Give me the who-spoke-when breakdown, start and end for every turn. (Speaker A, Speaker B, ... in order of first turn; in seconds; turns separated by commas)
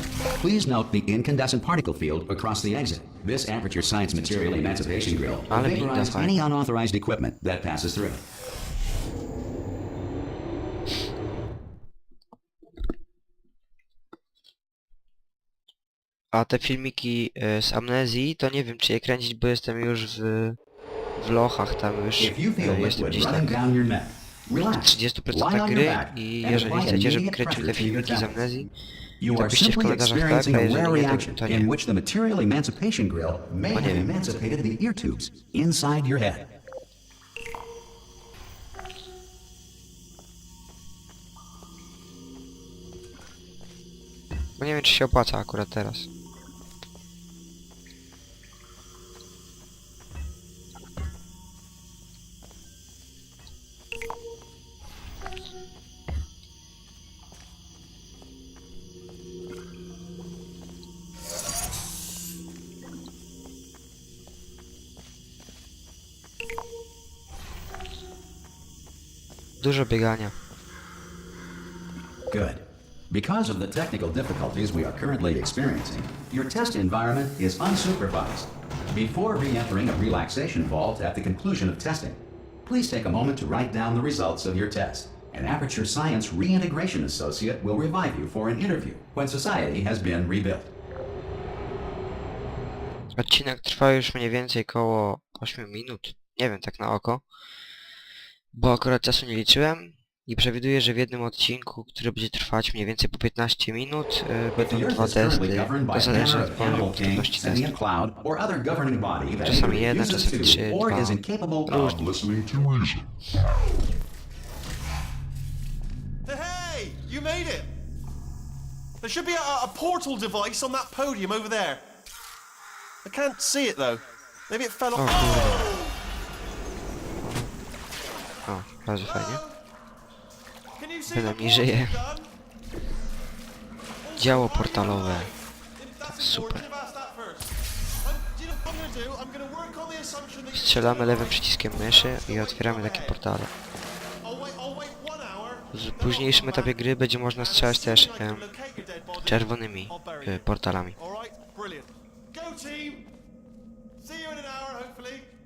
Speaker A: 0.4-8.2, Speaker B: 5.5-6.4, Speaker B: 16.3-20.6, Speaker B: 21.2-23.6, Speaker A: 22.2-28.6, Speaker B: 24.7-28.7, Speaker A: 29.2-36.5, Speaker B: 29.3-31.7, Speaker B: 33.7-34.1, Speaker B: 44.6-46.1, Speaker B: 69.6-70.3, Speaker A: 72.3-90.7, Speaker B: 93.2-97.2, Speaker B: 98.5-107.8, Speaker A: 104.6-112.8, Speaker B: 109.4-112.2, Speaker C: 116.3-117.7, Speaker C: 119.0-121.8, Speaker C: 123.0-126.0, Speaker B: 125.0-125.7, Speaker B: 127.2-127.5, Speaker B: 128.5-129.4, Speaker C: 129.0-129.6, Speaker C: 130.8-132.3, Speaker B: 131.1-132.0, Speaker C: 134.0-143.2, Speaker B: 134.2-135.3, Speaker B: 136.1-136.7, Speaker B: 140.5-143.5, Speaker C: 144.2-146.8, Speaker B: 145.7-148.5, Speaker C: 147.4-153.1, Speaker B: 149.2-151.0, Speaker C: 154.0-155.3